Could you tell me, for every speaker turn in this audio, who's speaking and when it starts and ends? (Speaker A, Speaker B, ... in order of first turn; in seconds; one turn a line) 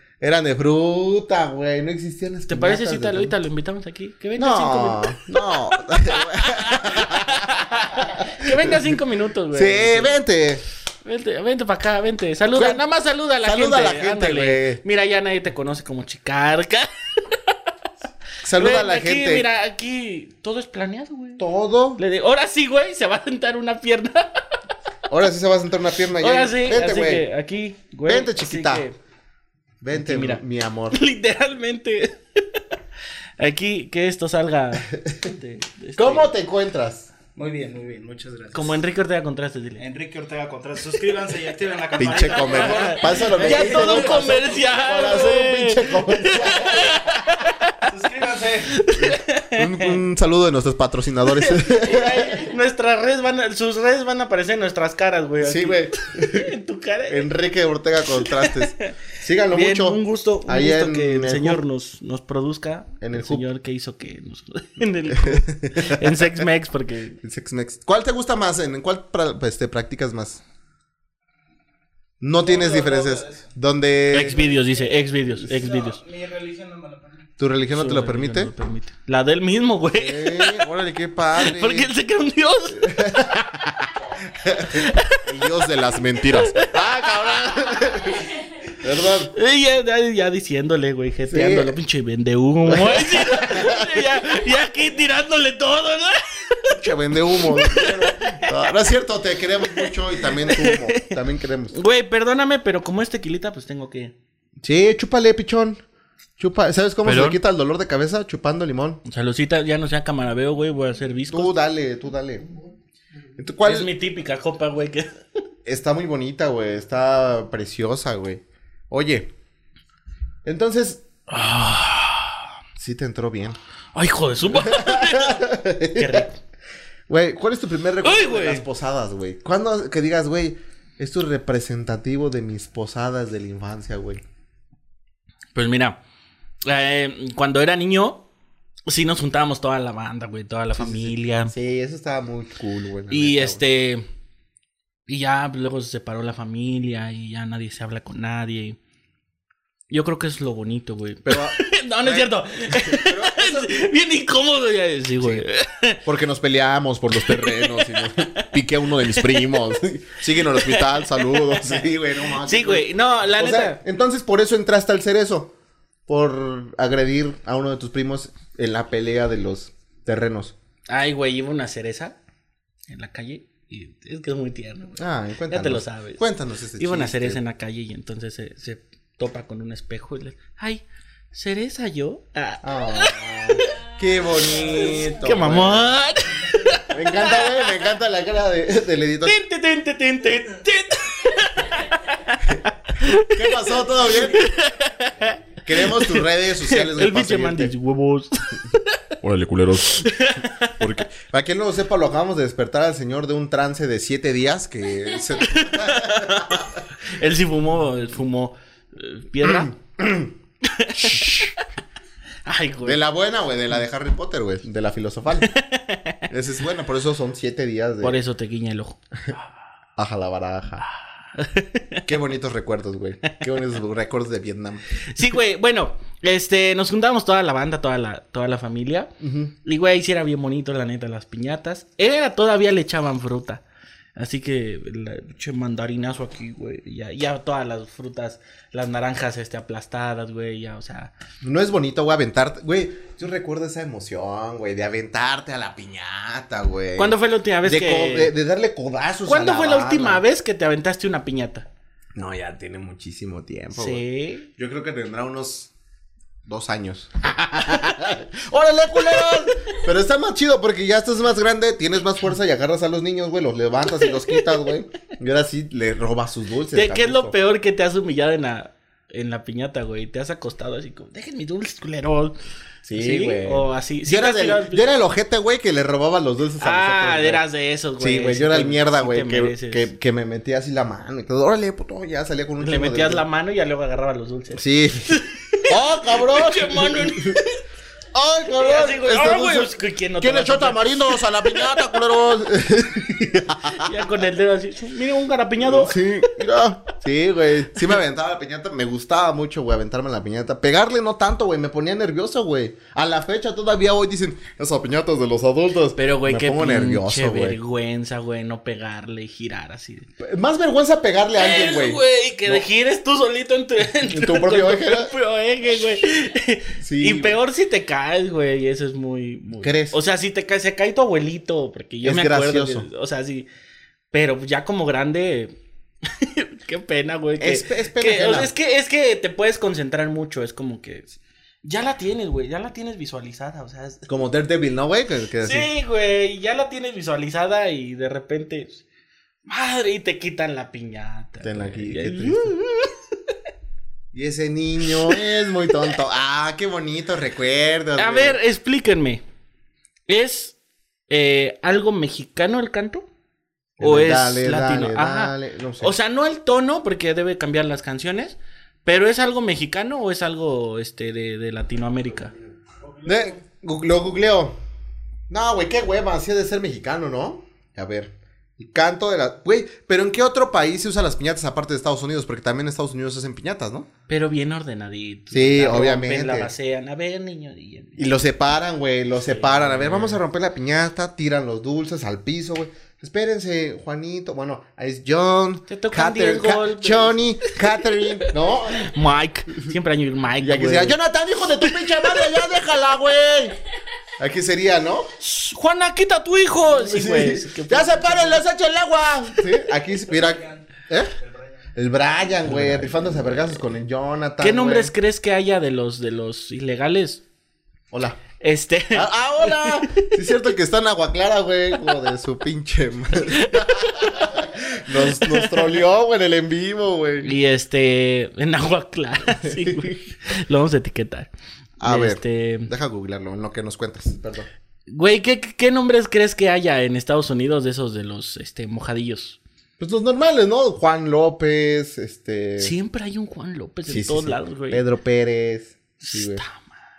Speaker A: 0.2-3.3
Speaker B: 2.5-10.1
Speaker A: 4.4-9.0
Speaker A: 9.5-10.6
Speaker B: 11.0-17.6
Speaker A: 12.5-12.8
Speaker A: 13.4-14.8
Speaker A: 18.4-19.4
Speaker B: 18.5-21.4
Speaker A: 21.4-22.0
Speaker B: 22.0-24.4
Speaker A: 25.1-27.2
Speaker B: 26.2-29.0
Speaker A: 28.1-28.9
Speaker A: 29.8-31.0
Speaker B: 29.9-32.6
Speaker B: 33.4-36.3
Speaker A: 36.0-37.1
Speaker C: 37.3-38.9
Speaker B: 38.5-39.8
Speaker C: 39.8-44.6
Speaker A: 42.0-47.0
Speaker B: 42.1-47.9
Speaker C: 47.8-48.8
Speaker B: 48.7-50.0
Speaker A: 49.0-52.5
Speaker B: 51.3-57.3
Speaker A: 55.4-56.5
Speaker A: 57.1-61.6
Speaker B: 58.2-58.9
Speaker B: 59.5-67.2
Speaker A: 63.0-63.4
Speaker A: 65.1-66.5
Speaker A: 67.2-70.4
Speaker A: 72.2-74.4
Speaker C: 72.4-73.5
Speaker B: 74.1-76.0
Speaker C: 74.2-74.6
Speaker C: 75.4-77.3
Speaker A: 77.4-78.5
Speaker B: 77.7-80.7
Speaker A: 79.9-81.9
Speaker B: 81.4-83.6
Speaker A: 82.8-88.3
Speaker B: 84.6-85.2
Speaker B: 86.2-87.1
Speaker A: 88.8-89.3
Speaker B: 89.3-98.5
Speaker A: 91.3-91.8
Speaker A: 92.7-94.0
Speaker A: 96.7-101.7
Speaker B: 99.7-101.1
Speaker B: 101.7-104.1
Speaker A: 104.6-105.8
Speaker A: 106.4-109.0
Speaker B: 107.0-107.4
Speaker B: 109.0-111.5
Speaker A: 111.3-112.6
Speaker A: 113.4-113.9
Speaker B: 113.6-115.2
Speaker A: 115.7-119.3
Speaker A: 120.4-121.0
Speaker B: 121.3-122.4
Speaker A: 122.8-123.6
Speaker B: 123.9-126.4
Speaker A: 124.6-126.3
Speaker A: 127.1-134.2
Speaker B: 128.0-128.7
Speaker B: 135.5-136.0
Speaker B: 136.6-138.2
Speaker B: 138.9-141.5
Speaker A: 140.8-143.6
Speaker B: 143.1-144.0
Speaker B: 145.1-148.8
Speaker B: 149.9-156.0
Speaker A: 151.2-153.9
Speaker A: 155.2-155.4
Speaker A: 156.0-165.5
Speaker B: 157.2-158.5
Speaker B: 159.1-159.8
Speaker B: 160.4-163.8
Speaker A: 166.1-170.5
Speaker B: 170.9-172.2
Speaker B: 172.9-175.0
Speaker A: 174.9-177.4
Speaker B: 175.5-176.2
Speaker B: 176.8-187.7
Speaker A: 182.6-185.9
Speaker A: 186.9-189.4
Speaker B: 189.2-199.0
Speaker A: 193.3-194.5
Speaker A: 195.6-197.7
Speaker A: 199.2-200.1
Speaker B: 199.9-201.0
Speaker A: 200.8-206.7
Speaker B: 205.4-209.7
Speaker A: 209.4-210.3
Speaker B: 210.6-211.5
Speaker A: 211.0-211.5
Speaker B: 212.4-213.0
Speaker A: 212.8-215.5
Speaker B: 215.4-216.2
Speaker A: 216.3-218.2
Speaker B: 218.0-219.0
Speaker A: 220.0-220.8
Speaker B: 221.3-222.0
Speaker A: 222.1-224.8
Speaker B: 225.1-229.1
Speaker A: 229.2-229.5
Speaker B: 229.6-233.6
Speaker B: 234.2-241.1
Speaker A: 241.4-250.2
Speaker B: 246.9-248.3
Speaker B: 249.2-251.7
Speaker A: 252.1-255.7
Speaker B: 253.7-254.5
Speaker A: 256.4-267.3
Speaker B: 266.7-272.4
Speaker A: 272.8-277.4
Speaker B: 272.9-274.8
Speaker B: 276.6-279.9
Speaker A: 278.0-283.2
Speaker B: 282.6-287.6
Speaker A: 284.5-285.1
Speaker A: 285.7-287.4
Speaker A: 288.1-294.0
Speaker B: 288.5-292.0
Speaker B: 293.8-296.1
Speaker A: 295.6-307.6
Speaker B: 305.9-310.1
Speaker A: 310.2-312.6
Speaker B: 311.4-323.5
Speaker A: 314.0-315.1
Speaker A: 316.8-317.4
Speaker A: 319.6-320.0
Speaker A: 322.0-322.9
Speaker B: 324.1-331.1
Speaker A: 327.4-328.5
Speaker B: 331.6-334.0
Speaker A: 334.1-335.7
Speaker B: 335.4-338.8
Speaker B: 339.4-343.3
Speaker A: 341.4-342.5
Speaker A: 344.1-348.4
Speaker B: 344.8-345.2
Speaker B: 347.9-349.2
Speaker B: 350.1-350.6
Speaker B: 351.1-353.1
Speaker A: 353.8-355.9
Speaker B: 353.8-362.3
Speaker A: 363.0-364.6
Speaker A: 365.3-373.9
Speaker B: 374.1-378.0
Speaker A: 375.3-376.5
Speaker A: 378.0-388.9
Speaker B: 379.2-380.2
Speaker B: 385.7-390.9
Speaker A: 390.4-393.6
Speaker B: 391.6-392.4
Speaker A: 394.2-395.1
Speaker B: 395.2-398.4
Speaker A: 396.7-401.1
Speaker C: 400.1-400.6
Speaker C: 401.2-401.5
Speaker A: 401.7-404.9
Speaker B: 402.5-403.1
Speaker B: 404.4-407.2
Speaker A: 407.9-408.2
Speaker B: 408.4-410.1
Speaker A: 408.9-417.3
Speaker B: 413.3-414.4
Speaker B: 415.1-415.6
Speaker B: 417.2-421.3
Speaker A: 419.4-420.0
Speaker A: 421.8-424.5
Speaker B: 421.8-422.7
Speaker B: 424.9-429.4
Speaker A: 429.8-432.8
Speaker B: 432.6-434.8
Speaker A: 433.9-436.4
Speaker B: 436.0-436.7